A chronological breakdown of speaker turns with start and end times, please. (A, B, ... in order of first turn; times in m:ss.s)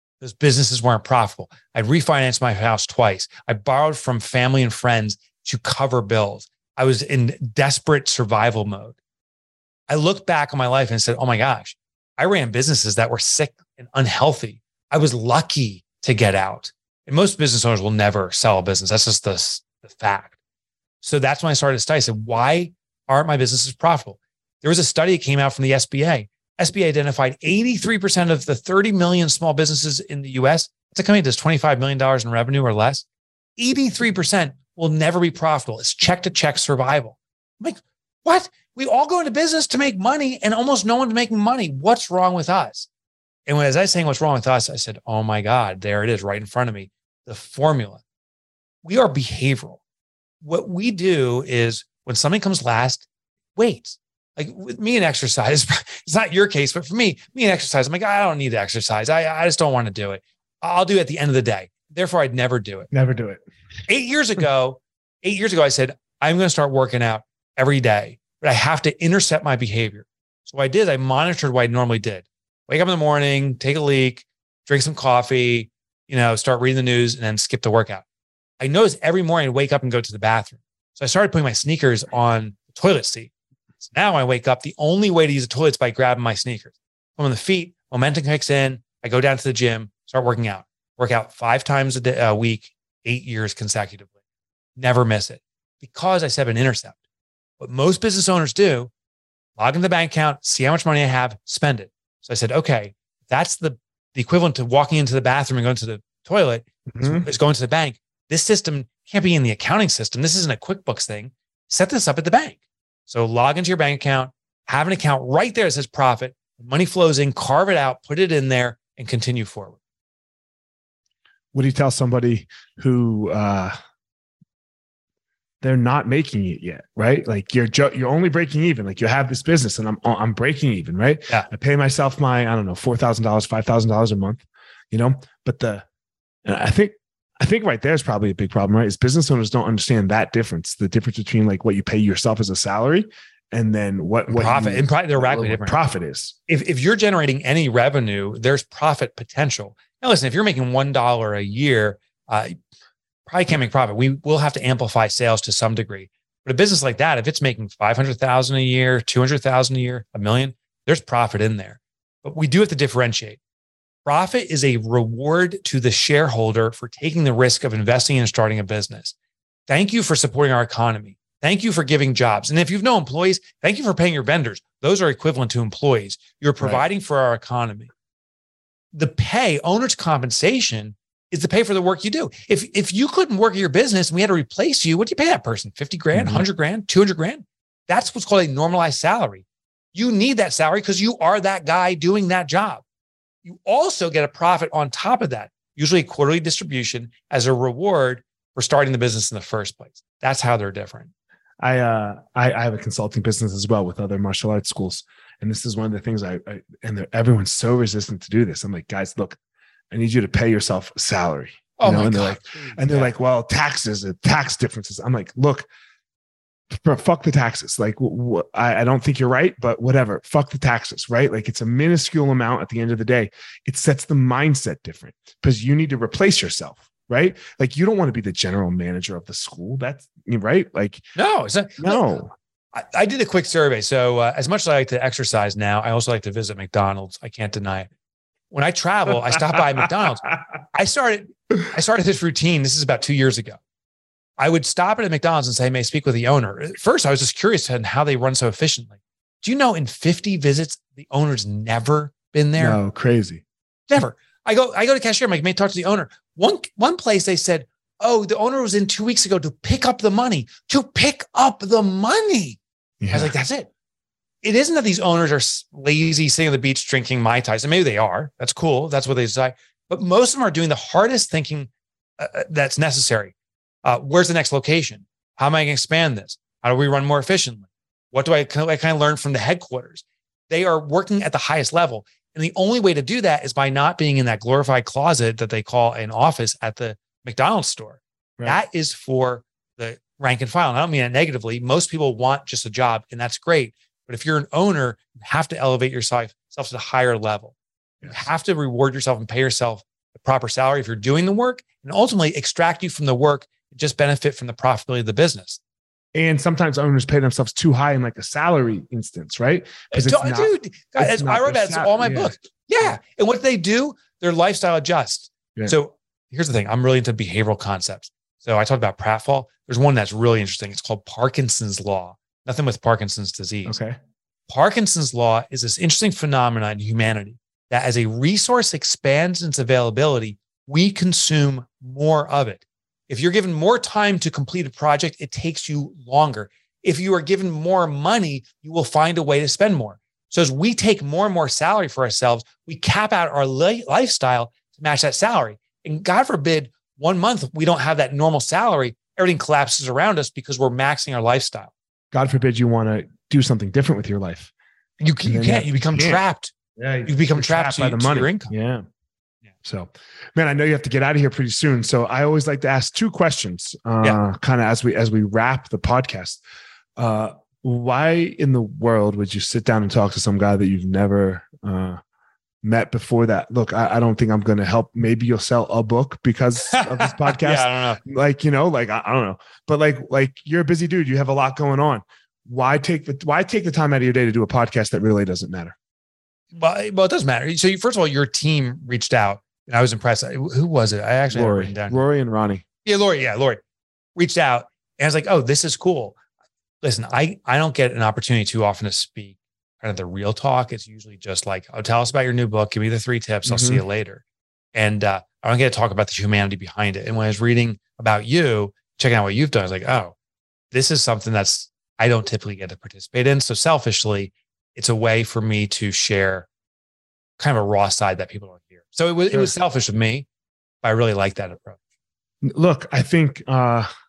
0:00.2-0:09.0 A
0:09.9-0:20.4 A
0:21.0-0:33.1 A
0:33.6-0:42.9 A
0:43.5-0:48.0 A
0:48.8-0:49.8 A
0:50.4-1:02.9 A
1:02.9-1:03.4 B
1:03.9-1:18.0 A
1:18.6-1:23.3 A
1:23.8-1:34.1 A
1:34.8-1:37.0 A
1:37.6-1:38.9 A
1:39.6-1:59.8 A
1:46.9-1:47.3 B
2:01.5-2:03.8 B
2:05.6-2:15.8 B
2:16.4-2:26.4 B
2:24.3-2:25.8 A
2:26.5-2:32.6 A
2:33.3-2:43.4 A
2:44.0-2:49.2 A
2:49.7-2:57.9 A
2:58.9-3:12.8 A
3:06.1-3:06.5 B
3:13.4-3:21.1 A
3:21.6-3:29.4 B
3:29.9-3:35.7 B
3:31.8-3:33.1 A
3:36.7-3:51.0 B
3:51.2-3:52.2 A
3:51.8-3:52.3 B
3:52.7-3:57.9 A
3:58.5-4:03.6 A
4:04.4-4:12.8 A
4:12.6-4:13.4 B
4:13.9-4:22.6 A
4:23.0-4:23.3 B
4:23.1-4:23.7 A
4:24.4-4:57.6 A
4:58.1-5:05.6 A
5:06.2-5:13.0 B
5:09.9-5:23.8 A
5:23.7-5:24.0 B
5:24.5-5:51.7 A
5:52.1-5:54.5 B
5:55.0-5:56.5 A
5:55.3-5:56.2 B
5:56.8-5:58.8 B
5:57.1-5:58.5 A
5:59.6-6:06.4 B
6:07.0-6:12.0 B
6:12.6-6:25.8 B
6:16.7-6:18.0 A
6:26.5-6:32.0 A
6:31.3-6:32.6 B
6:32.8-6:33.6 A
6:34.2-6:36.2 A
6:36.8-6:44.2 A
6:43.5-6:43.8 B
6:44.7-6:50.2 A
6:50.7-6:56.5 A
6:57.4-7:00.3 A
7:00.8-7:01.8 A
7:02.4-7:03.9 B